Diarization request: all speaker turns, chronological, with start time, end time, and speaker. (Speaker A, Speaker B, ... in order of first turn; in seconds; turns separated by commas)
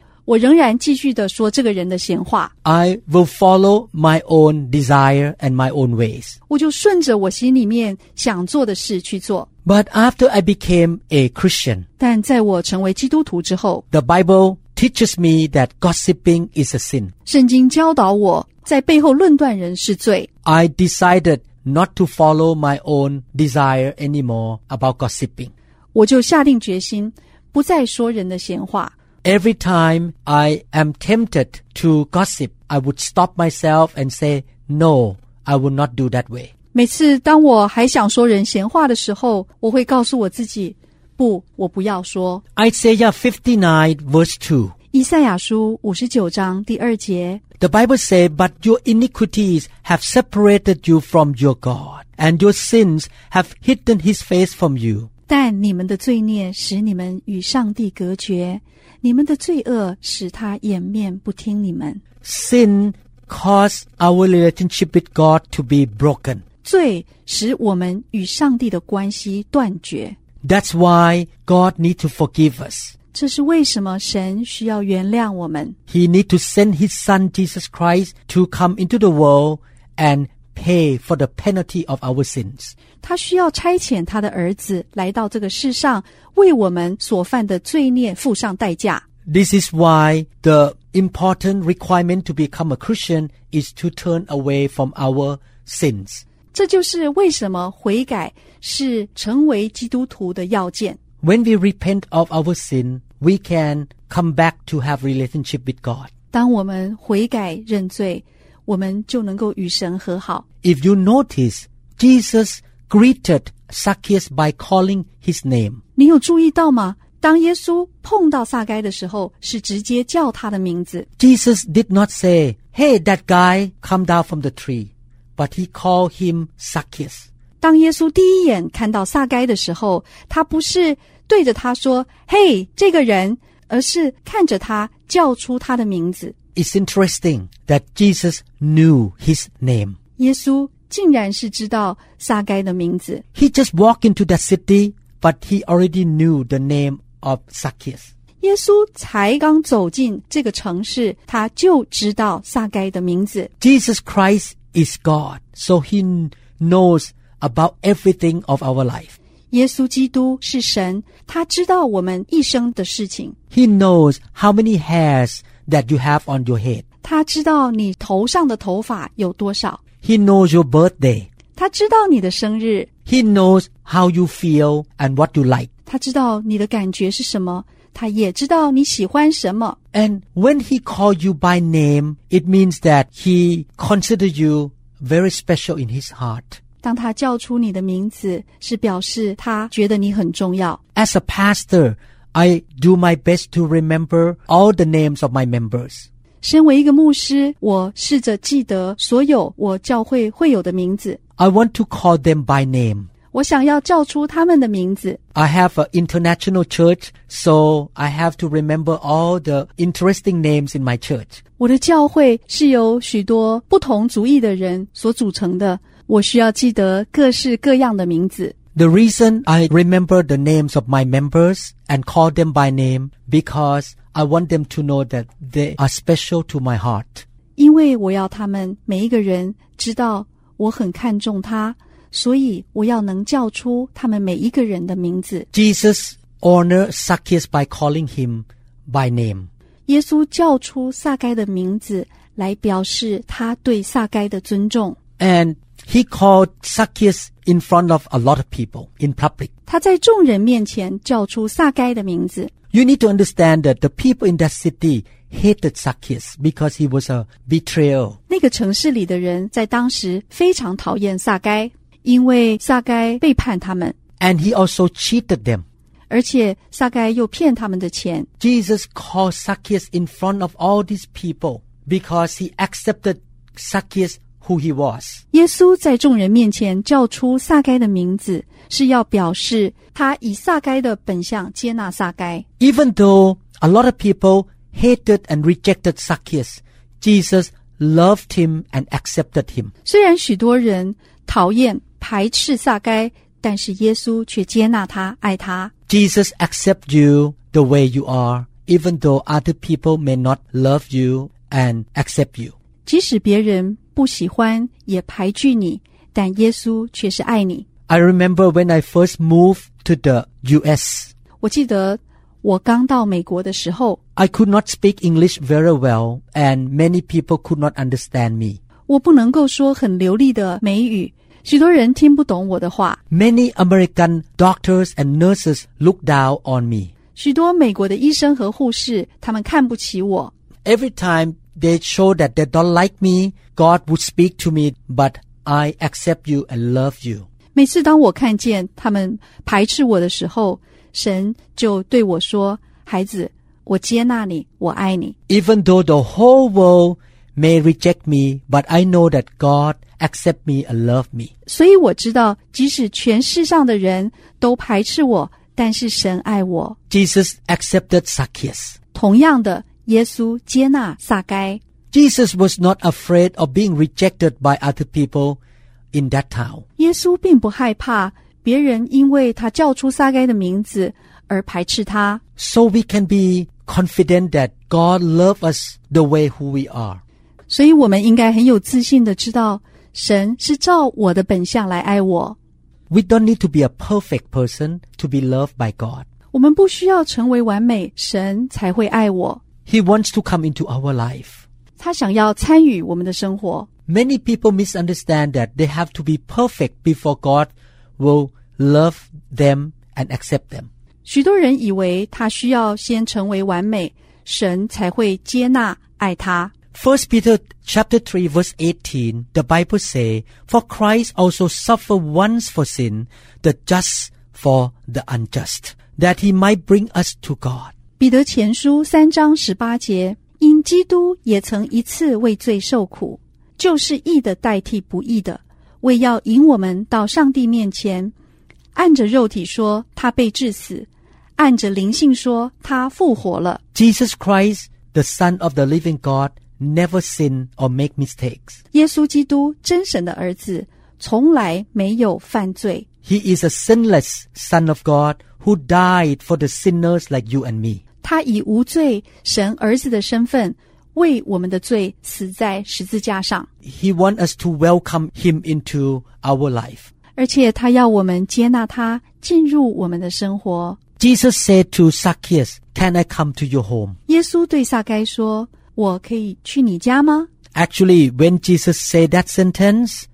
Speaker A: 0.2-2.5, Speaker B: 2.6-6.4, Speaker A: 6.5-9.5, Speaker B: 9.6-11.8, Speaker A: 12.0-13.8, Speaker B: 13.9-17.1, Speaker A: 17.2-20.3, Speaker B: 20.4-25.5, Speaker A: 25.9-28.9, Speaker B: 29.2-36.5, Speaker A: 36.7-42.4, Speaker B: 42.5-44.7, Speaker A: 44.9-47.4, Speaker B: 47.6-55.1, Speaker A: 55.3-62.0, Speaker B: 62.2-66.4, Speaker A: 66.6-70.2, Speaker B: 70.4-72.9, Speaker A: 73.1-75.8, Speaker B: 75.9-82.7, Speaker A: 83.0-89.0, Speaker B: 89.2-96.2, Speaker A: 96.5-101.0, Speaker B: 101.2-106.1, Speaker A: 106.3-110.4, Speaker B: 110.6-115.8, Speaker A: 116.0-121.1, Speaker B: 121.2-127.2, Speaker A: 127.6-136.3, Speaker B: 136.5-140.0, Speaker A: 140.2-143.2, Speaker B: 143.3-148.1, Speaker A: 148.4-153.5, Speaker B: 153.6-159.1, Speaker A: 159.5-163.3, Speaker B: 163.5-166.8, Speaker A: 167.0-169.8, Speaker B: 170.0-171.3, Speaker A: 171.6-172.9, Speaker B: 173.1-175.7, Speaker A: 175.9-179.8, Speaker B: 179.9-186.6, Speaker A: 186.8-190.8, Speaker B: 190.9-196.1, Speaker A: 196.4-201.2, Speaker B: 201.4-203.1, Speaker A: 203.3-205.2, Speaker B: 205.3-211.4, Speaker A: 211.6-218.5, Speaker B: 218.7-227.2, Speaker A: 227.6-235.5, Speaker B: 235.5-239.5, Speaker A: 239.9-245.0, Speaker B: 245.2-249.5, Speaker A: 249.7-252.5, Speaker B: 252.7-258.2, Speaker A: 258.3-263.9, Speaker B: 264.2-265.6, Speaker A: 266.1-268.3, Speaker B: 268.4-275.2, Speaker A: 275.3-282.4, Speaker B: 282.6-289.7, Speaker A: 289.8-295.7, Speaker B: 295.9-302.5, Speaker A: 302.9-307.6, Speaker B: 307.9-311.1, Speaker A: 311.4-314.0, Speaker B: 314.1-318.6, Speaker A: 318.9-323.0, Speaker B: 323.1-326.9, Speaker A: 327.1-330.3, Speaker B: 330.6-337.2, Speaker A: 337.5-345.1, Speaker B: 345.3-351.3, Speaker A: 351.4-356.8, Speaker B: 356.9-358.8, Speaker A: 358.9-361.6, Speaker B: 361.9-365.4, Speaker B: 365.9-366.6, Speaker A: 366.8-372.2, Speaker B: 372.4-377.0, Speaker A: 377.5-382.4, Speaker B: 382.9-386.1, Speaker A: 386.3-389.4, Speaker B: 389.6-391.4, Speaker A: 391.8-393.7, Speaker B: 393.9-400.7, Speaker A: 401.0-406.5, Speaker B: 406.7-417.7, Speaker A: 418.0-428.1, Speaker A: 428.7-433.6, Speaker B: 433.7-438.6, Speaker A: 438.7-442.9, Speaker B: 443.0-447.8, Speaker A: 448.0-453.5, Speaker B: 453.6-456.9, Speaker A: 457.1-460.8, Speaker B: 461.0-464.0, Speaker A: 464.1-467.3, Speaker B: 467.5-470.1